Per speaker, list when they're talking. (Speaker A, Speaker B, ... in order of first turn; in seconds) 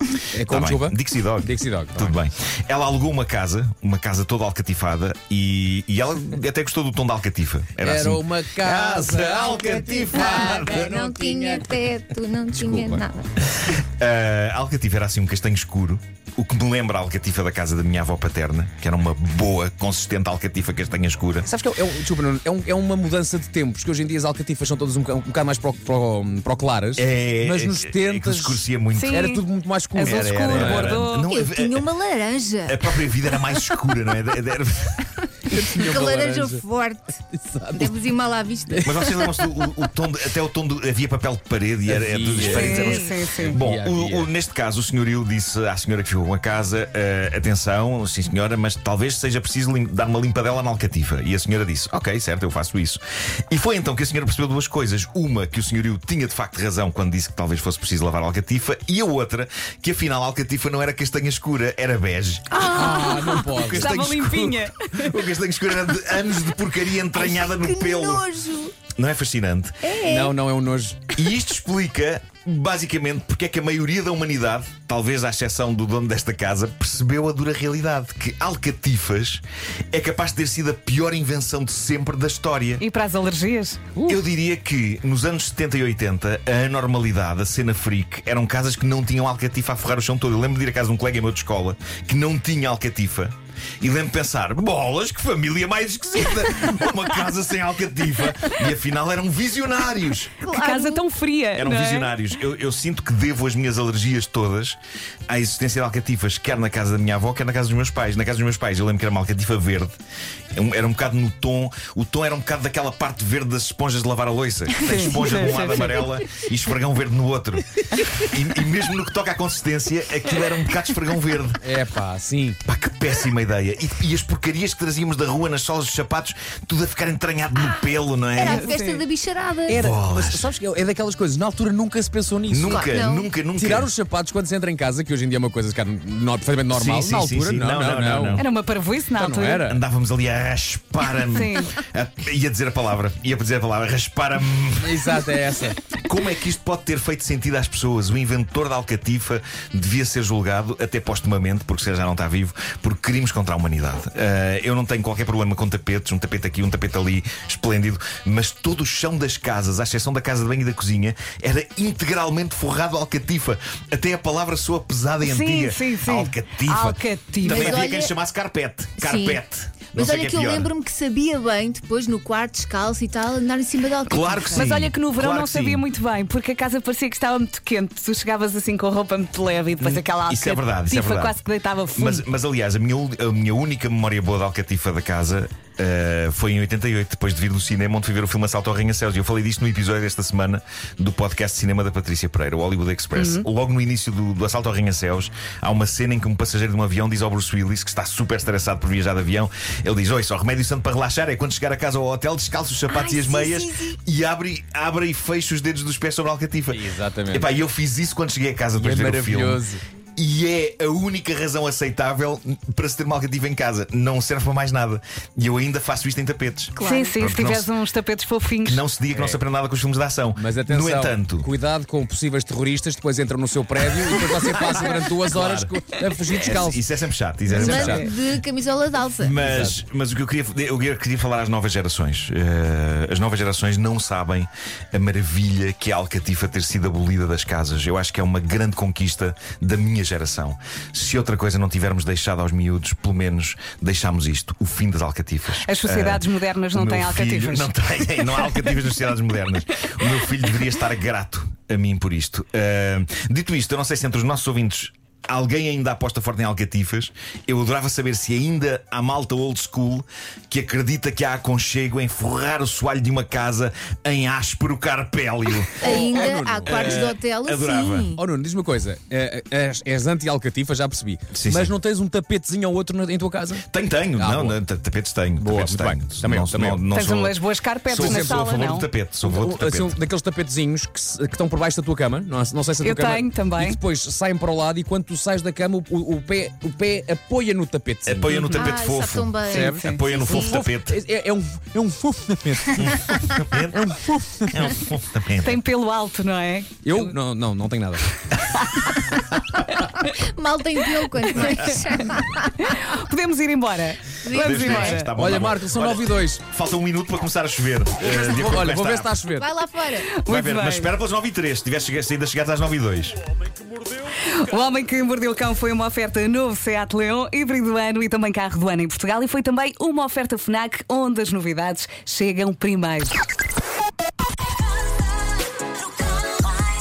Speaker A: 0.3-2.2, 7.8-12.0, 12.5-13.1, 21.4-31.1, 35.5-36.6, 37.3-38.0, 38.7-39.7, 41.9-44.3, 62.7-63.9, 70.0-71.0, 115.1-116.2, 121.6-122.6, 129.7-132.9, 133.5-138.4, 139.2-139.8, 144.8-145.8, 206.7-207.5, 208.8-209.8, 219.1-219.4, 220.3-226.8, 227.5-228.1, 229.4-229.8, 265.8-267.1, 268.2-273.6, 274.1-274.6, 275.4-276.9, 277.9-278.4, 279.2-288.5, 289.5-294.8, 296.8-298.1, 305.1-306.4, 308.0-309.5
Speaker B: 0.5-10.9, 13.6-21.5, 27.0-29.2, 30.0-31.8, 32.7-35.1, 38.8-68.2, 68.9-69.8, 71.2-82.8, 84.0-100.4, 101.5-104.8, 105.3-110.0, 110.5-121.6, 122.6-128.7, 129.7-130.4, 132.5-133.9, 136.7-138.4, 139.7-145.2, 146.0-170.7, 174.1-175.8, 179.8-181.4, 181.9-209.6, 210.2-217.7, 218.6-221.5, 224.6-225.8, 226.3-228.1, 229.2-268.1, 271.3-271.7, 273.7-280.0, 288.1-290.9, 292.8-293.9, 294.5-295.6, 304.3-309.2, 310.2-313.2
Speaker C: 9.5-13.3, 31.1-33.0, 35.7-39.2, 62.6-63.3, 67.1-68.8, 69.8-70.4, 100.4-101.0, 128.3-129.8, 132.6-133.3, 167.4-168.1, 169.0-169.4, 169.9-174.7, 202.9-203.9, 216.7-217.2, 227.5-229.4, 265.8-268.2, 288.4-290.6, 300.0-302.6, 304.2-305.0, 309.3-310.1
Speaker D: 28.9-29.4, 29.9-31.3, 42.4-43.6, 62.7-65.1, 82.8-83.8, 100.5-102.1, 114.8-115.6, 128.4-129.0, 138.4-139.6, 141.2-141.7, 165.2-167.8, 174.5-182.2, 193.1-193.5, 216.8-218.8, 245.6-247.7, 276.9-278.9, 282.8-283.8, 289.6-290.0, 295.4-297.1, 298.5-298.9, 302.1-305.1, 310.0-310.9, 314.2-323.2